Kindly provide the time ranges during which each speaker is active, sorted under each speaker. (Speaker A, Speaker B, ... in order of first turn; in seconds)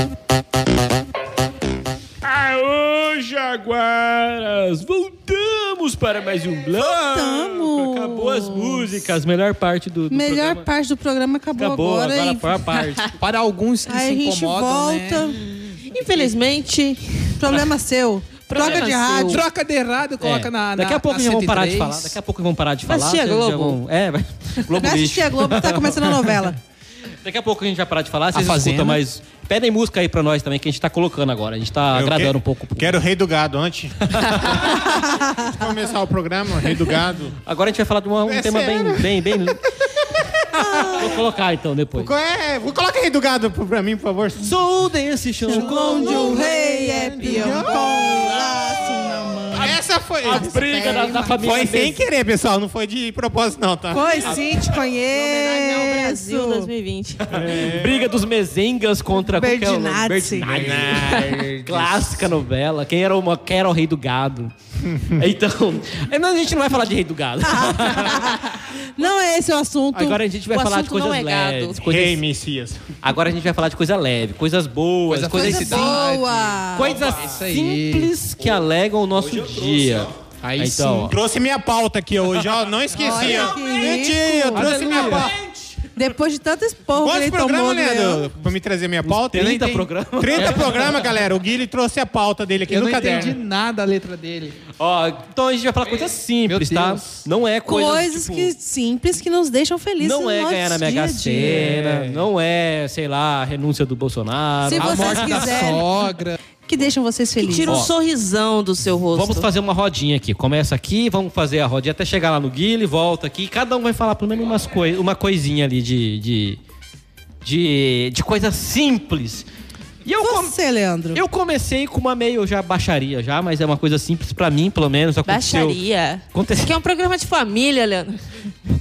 Speaker A: 2.2-10.7, 11.6-13.1, 20.2-26.5, 27.2-33.0, 34.0-34.6, 37.4-39.6, 41.0-42.1, 44.4-46.4, 50.2-52.0, 57.2-68.5, 69.9-72.2, 73.0-76.0, 76.8-81.1, 83.1-83.9, 84.5-85.8, 89.0-91.1, 94.8-98.5, 100.0-105.7, 107.7-107.9, 109.1-116.6, 117.4-119.5, 120.0-120.5, 121.1-125.8, 126.3-126.7
Speaker B: 6.8-9.0, 10.1-12.6, 13.9-15.4, 17.4-19.4, 24.8-26.6, 34.8-35.5, 40.5-41.1, 45.5-49.8, 50.3-51.0, 53.9-56.7, 59.1-60.6, 67.4-70.2, 75.3-77.0, 83.0-84.8, 85.9-88.3, 97.7-101.7, 104.6-105.8, 106.6-107.8, 120.2-121.2
Speaker C: 13.2-15.3, 19.2-22.2, 28.3-29.0, 60.4-61.0, 75.1-78.1, 79.5-81.1, 84.6-85.3, 89.3-90.7, 92.7-94.6, 96.5-97.2, 101.4-102.2, 104.7-106.4
Speaker D: 15.7-17.6, 18.5-19.4, 22.9-23.8, 45.5-47.9, 55.0-57.4, 61.1-61.4, 70.5-71.8, 107.4-109.5, 125.2-128.2
Speaker E: 31.9-37.4, 38.2-41.2, 41.9-44.6, 45.8-49.0, 49.5-54.6, 57.3-58.1, 60.4-62.1, 71.8-72.9, 81.1-85.3, 87.0-89.6, 90.2-93.4